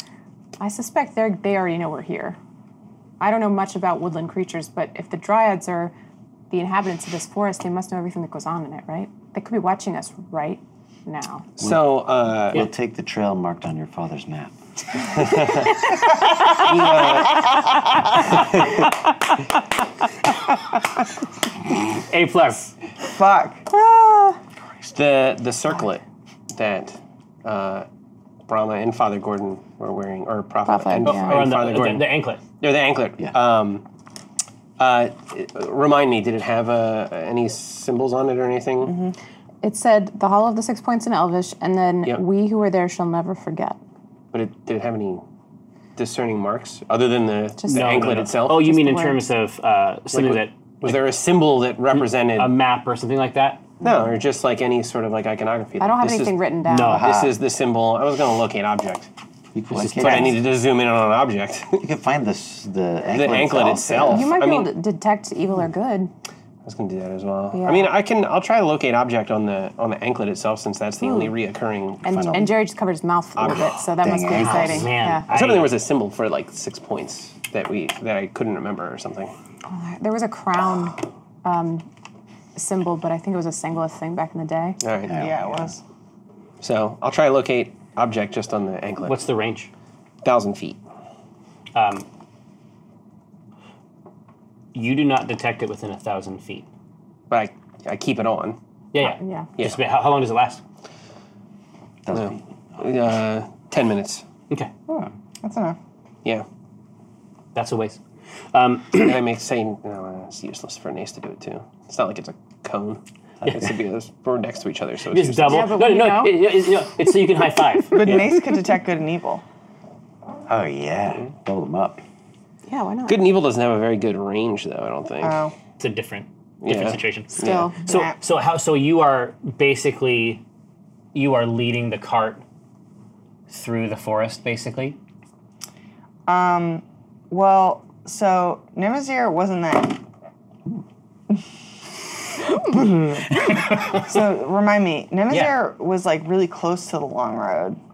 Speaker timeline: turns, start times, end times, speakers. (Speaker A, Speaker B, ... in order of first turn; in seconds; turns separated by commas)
Speaker A: 0.6-2.4, Speaker A: 3.2-5.9, Speaker A: 6.5-11.5, Speaker B: 11.6-12.7, Speaker C: 11.6-11.9, Speaker C: 12.4-14.6, Speaker B: 15.2-15.8, Speaker B: 16.6-17.5, Speaker D: 22.1-22.7, Speaker E: 23.1-23.7, Speaker A: 23.7-24.4, Speaker B: 24.9-27.9, Speaker B: 28.5-33.9, Speaker A: 30.6-31.5, Speaker D: 31.0-32.4, Speaker B: 34.8-39.0, Speaker E: 38.8-39.1, Speaker A: 39.6-43.8, Speaker B: 44.3-45.2, Speaker B: 46.0-48.6, Speaker A: 47.6-49.2, Speaker D: 47.7-50.9, Speaker B: 50.1-52.5, Speaker D: 52.0-53.6, Speaker B: 53.8-59.1, Speaker A: 55.8-57.0, Speaker D: 56.7-57.1, Speaker C: 56.9-57.3, Speaker C: 59.5-60.4, Speaker B: 59.7-61.8, Speaker D: 59.8-60.4, Speaker C: 61.8-64.3, Speaker B: 63.1-64.7, Speaker A: 63.3-66.1, Speaker B: 66.7-72.5, Speaker A: 67.5-67.9, Speaker A: 71.0-71.3, Speaker A: 72.0-75.2, Speaker C: 72.0-72.6, Speaker B: 73.4-73.9, Speaker C: 73.5-74.9, Speaker D: 74.3-75.7, Speaker E: 74.6-74.8, Speaker B: 75.3-79.3, Speaker A: 79.7-81.9, Speaker A: 82.5-84.8, Speaker B: 84.8-85.2, Speaker C: 85.1-85.7, Speaker E: 85.2-85.8, Speaker B: 86.6-89.2, Speaker D: 89.0-89.7, Speaker B: 90.2-90.8, Speaker D: 91.7-92.1, Speaker D: 94.7-96.7, Speaker B: 97.3-98.6, Speaker D: 98.9-100.6, Speaker A: 99.0-99.5, Speaker C: 102.1-102.9, Speaker B: 102.1-104.2, Speaker E: 104.9-105.8, Speaker D: 107.5-108.0, Speaker D: 108.5-109.2, Speaker B: 109.0-115.7, Speaker C: 113.4-113.7, Speaker D: 115.1-118.0, Speaker A: 115.4-116.4, Speaker E: 117.9-119.4, Speaker C: 120.5-122.0, Speaker A: 122.7-123.2, Speaker B: 123.1-125.4, Speaker E: 125.2-125.5, Speaker D: 125.8-130.4, Speaker B: 126.6-127.7, Speaker A: 127.4-127.8, Speaker E: 127.8-128.2, Speaker D: 131.1-132.4, Speaker D: 133.5-135.0, Speaker E: 136.3-140.0, Speaker E: 142.5-147.8, Speaker D: 143.5-144.1